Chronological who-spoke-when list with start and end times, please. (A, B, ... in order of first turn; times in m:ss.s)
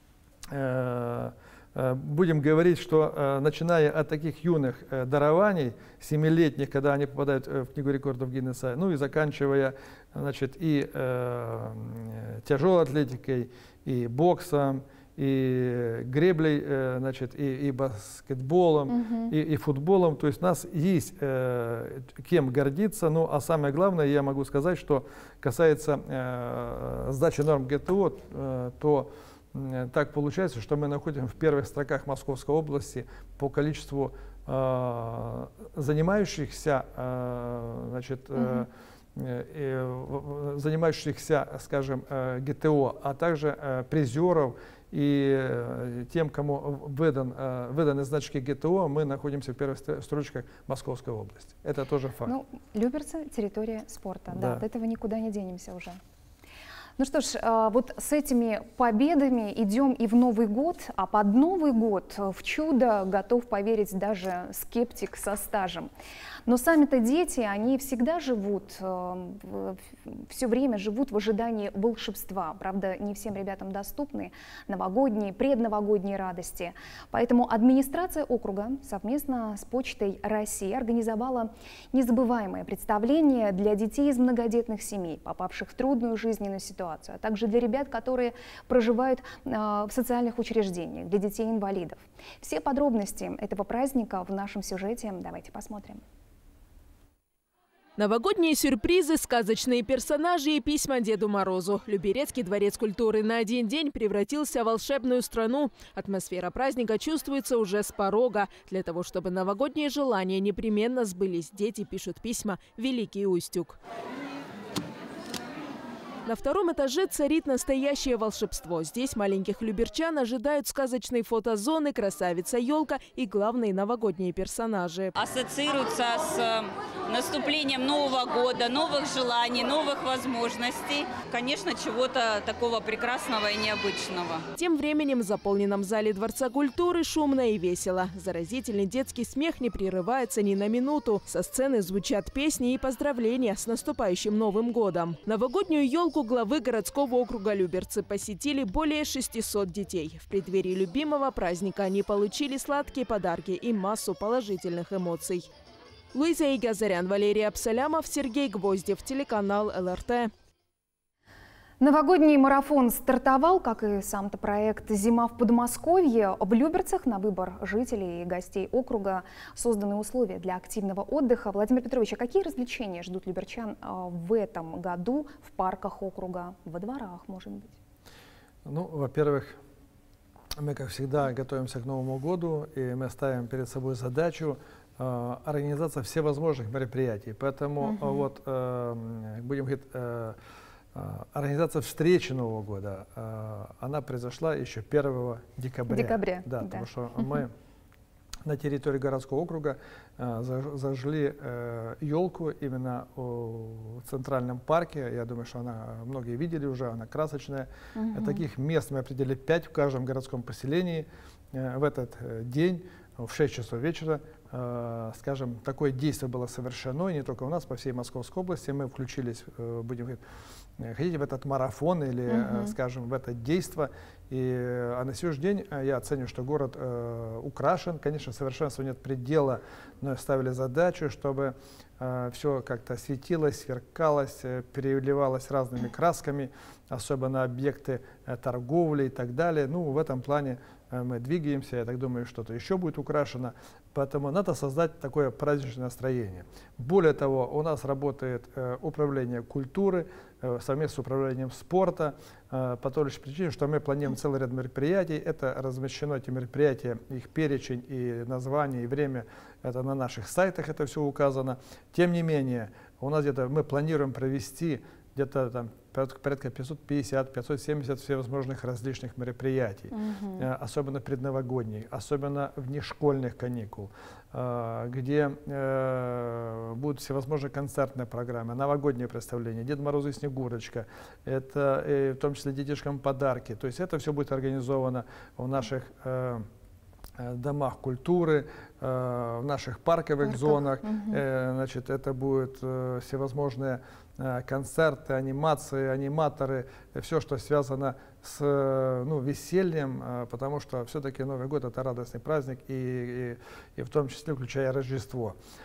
0:00.5-0:52.3 A
0:18.9-0:19.3 B
0:38.4-0:38.6 B
0:52.3-0:56.0 B
0:54.3-0:54.6 A
0:57.0-1:05.9 B
1:06.5-1:36.0 B
1:38.0-1:53.8 C
1:56.2-2:05.1 C
2:05.1-2:14.4 D
2:14.6-2:35.5 C
2:36.1-2:40.3 C
2:41.8-2:57.8 B
2:58.6-2:59.6 A
3:00.6-3:10.4 A
3:07.8-3:08.2 B
3:10.9-3:17.5 A
3:15.9-3:17.4 B
3:18.4-3:40.2 A
3:27.9-3:28.4 B
3:40.8-4:46.4 A
3:42.3-3:42.7 B
4:29.9-4:30.5 B
4:47.2-5:05.4 A
4:50.2-4:51.2 B